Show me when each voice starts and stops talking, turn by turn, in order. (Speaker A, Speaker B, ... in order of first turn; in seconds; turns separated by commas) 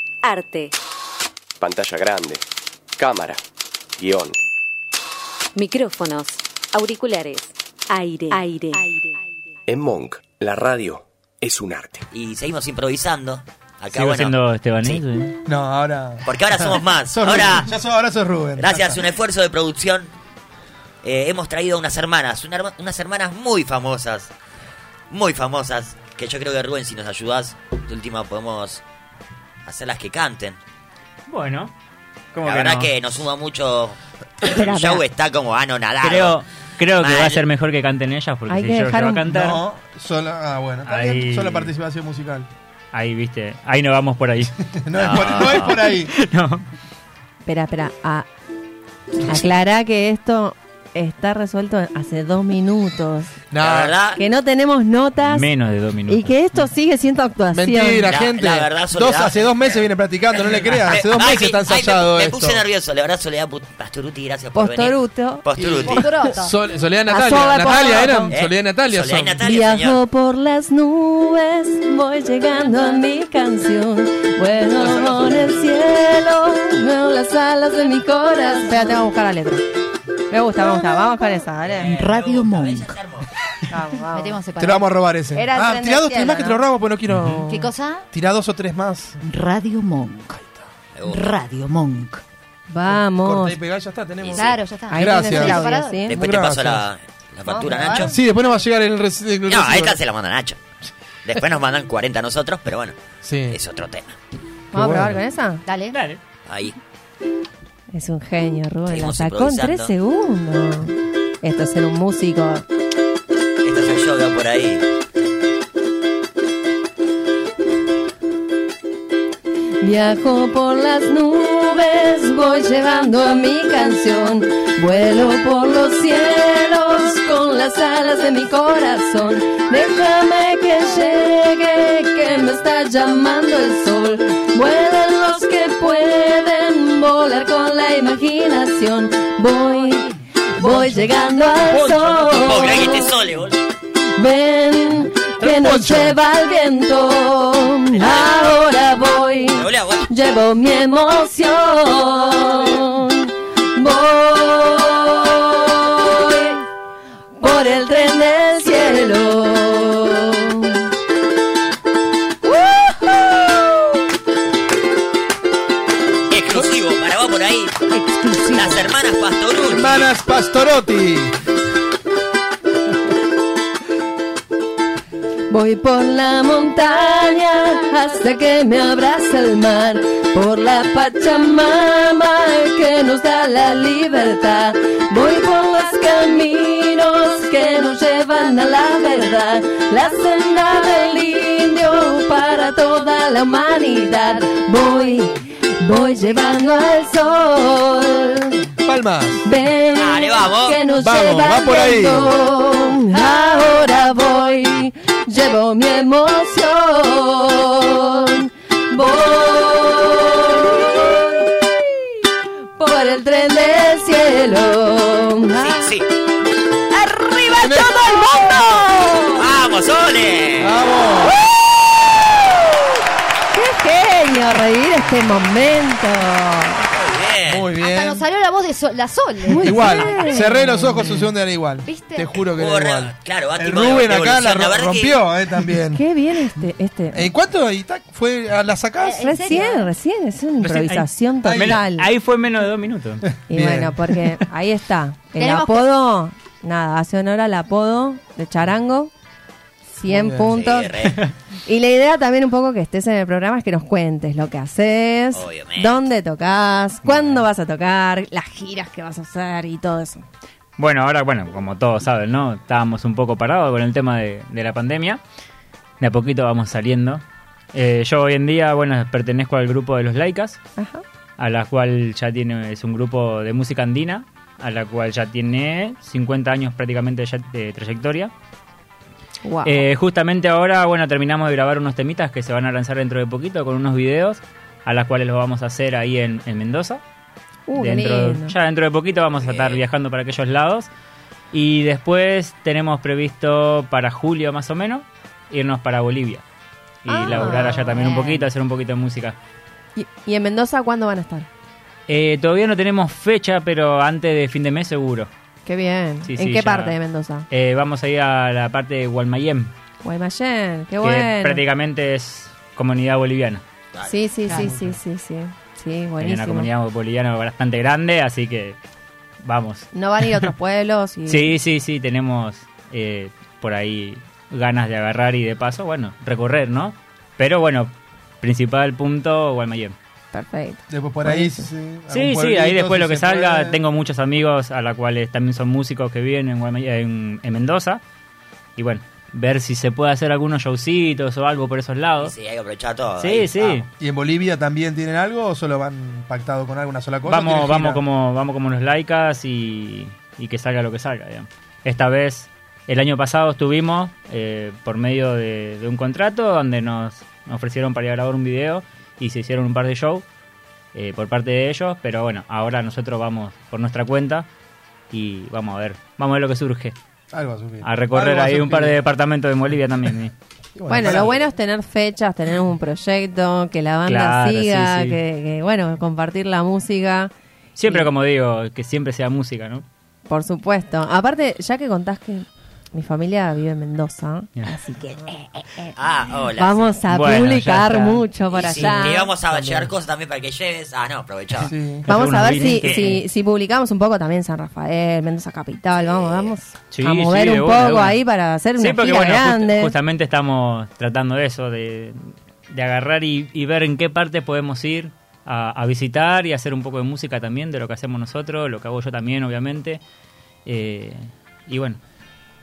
Speaker A: 0.2-0.7, Speaker B: 1.6-2.4, Speaker B: 3.0-3.4, Speaker B: 4.0-4.4, Speaker A: 5.5-9.2, Speaker B: 9.7-12.1, Speaker C: 12.1-15.0, Speaker D: 13.9-15.4, Speaker E: 15.5-19.0, Speaker C: 16.2-17.7, Speaker C: 18.6-20.1, Speaker C: 21.0-24.3, Speaker C: 25.1-28.8, Speaker C: 29.6-30.6, Speaker D: 31.3-31.7, Speaker D: 32.3-32.9, Speaker C: 32.4-36.4, Speaker F: 34.5-35.0, Speaker D: 36.0-39.6, Speaker C: 37.0-37.4, Speaker F: 38.5-39.3, Speaker E: 39.3-42.5, Speaker D: 40.9-41.7, Speaker D: 42.9-44.5, Speaker E: 44.7-46.1, Speaker C: 45.0-45.8, Speaker D: 45.2-46.7, Speaker F: 47.5-48.3, Speaker F: 49.2-53.3, Speaker E: 53.5-54.0, Speaker C: 53.6-54.2, Speaker F: 54.1-55.5, Speaker D: 55.2-56.6, Speaker F: 56.1-58.1, Speaker E: 57.5-62.6, Speaker C: 58.0-66.1, Speaker F: 64.5-66.4, Speaker E: 65.6-69.4, Speaker G: 65.6-66.6, Speaker F: 67.1-68.3, Speaker C: 68.3-70.0, Speaker F: 69.4-79.6, Speaker F: 80.3-81.9, Speaker E: 80.6-81.2, Speaker C: 81.6-83.3, Speaker G: 81.8-83.0, Speaker F: 83.7-84.4, Speaker G: 84.1-84.9, Speaker E: 84.6-89.2, Speaker F: 85.3-87.5, Speaker G: 87.5-88.1, Speaker G: 89.2-90.4, Speaker C: 90.9-91.3, Speaker G: 91.0-92.2, Speaker F: 92.7-93.6, Speaker E: 92.9-96.9, Speaker C: 94.2-94.5, Speaker G: 94.3-96.2, Speaker F: 94.9-96.1, Speaker C: 96.0-98.2, Speaker F: 97.5-98.1, Speaker E: 98.0-100.0, Speaker C: 99.5-100.6, Speaker C: 101.2-103.0, Speaker E: 103.2-103.6, Speaker C: 103.5-104.1, Speaker F: 104.7-105.6, Speaker E: 104.7-105.2, Speaker G: 105.7-106.0, Speaker D: 105.9-106.2, Speaker C: 106.5-106.8, Speaker F: 107.9-112.6, Speaker C: 108.9-109.9, Speaker C: 113.6-114.9, Speaker F: 119.8-143.2, Speaker E: 140.6-141.1, Speaker C: 141.7-143.6, Speaker F: 144.2-156.6, Speaker E: 145.4-146.2, Speaker C: 147.9-148.8, Speaker C: 149.5-150.1, Speaker F: 157.4-160.8, Speaker C: 166.3-167.8, Speaker G: 167.9-168.9, Speaker C: 168.5-170.1, Speaker E: 169.6-171.3, Speaker F: 175.5-198.7, Speaker E: 198.8-199.4, Speaker F: 199.4-211.7, Speaker C: 199.9-200.8, Speaker E: 200.9-202.3, Speaker F: 212.8-215.9, Speaker C: 215.5-216.1, Speaker C: 216.9-218.6, Speaker E: 217.6-217.9, Speaker F: 217.6-219.5, Speaker C: 219.3-220.8, Speaker E: 220.6-221.3, Speaker F: 223.5-226.9, Speaker C: 226.9-227.7, Speaker E: 227.4-228.2, Speaker G: 227.8-230.5, Speaker F: 229.4-231.1, Speaker E: 229.6-236.0, Speaker G: 231.8-232.4, Speaker C: 232.5-235.2, Speaker F: 235.9-237.3, Speaker E: 237.1-239.3, Speaker G: 239.0-239.9, Speaker F: 239.2-242.1, Speaker D: 240.7-243.2, Speaker E: 241.4-241.8, Speaker E: 243.2-244.3, Speaker F: 243.5-249.1, Speaker G: 245.4-245.9, Speaker F: 249.9-251.1, Speaker E: 250.1-250.6, Speaker C: 250.4-251.2, Speaker F: 251.7-260.2, Speaker C: 255.3-256.0, Speaker D: 257.1-257.4, Speaker D: 260.8-265.2, Speaker D: 266.0-270.6, Speaker F: 270.8-271.0, Speaker D: 271.4-278.3, Speaker F: 279.4-279.9, Speaker D: 279.6-287.0, Speaker F: 287.7-288.6, Speaker D: 287.8-290.9, Speaker C: 289.3-289.8, Speaker D: 291.5-296.4, Speaker D: 297.0-299.4, Speaker F: 297.1-298.4, Speaker G: 297.2-298.3, Speaker F: 299.9-301.5, Speaker D: 302.1-305.3, Speaker F: 305.6-307.5, Speaker D: 306.2-306.9, Speaker D: 307.5-309.7, Speaker F: 310.0-311.6, Speaker D: 311.0-313.6, Speaker C: 313.9-314.3, Speaker F: 314.1-316.7, Speaker G: 314.4-314.7, Speaker E: 314.5-315.0, Speaker D: 316.2-318.8, Speaker D: 319.4-320.5, Speaker F: 319.9-321.6, Speaker D: 321.2-329.9, Speaker F: 330.3-331.7, Speaker E: 330.9-333.8, Speaker D: 332.1-338.0, Speaker D: 338.8-342.3, Speaker C: 342.2-343.9, Speaker D: 343.2-343.9, Speaker E: 344.0-348.0, Speaker D: 347.2-360.2, Speaker D: 360.9-364.5, Speaker D: 365.1-366.9, Speaker E: 367.3-369.0, Speaker D: 367.8-370.3, Speaker E: 370.8-371.4, Speaker F: 370.9-377.3, Speaker D: 374.1-375.2, Speaker D: 377.8-379.8, Speaker F: 380.3-385.9, Speaker C: 385.9-387.0, Speaker F: 386.6-389.3, Speaker D: 387.1-388.3, Speaker C: 388.5-391.7, Speaker E: 389.5-389.8, Speaker E: 391.6-392.1, Speaker F: 392.1-399.9, Speaker D: 392.1-393.2, Speaker C: 396.0-396.6, Speaker D: 396.9-398.2, Speaker D: 398.8-410.0, Speaker D: 410.6-412.0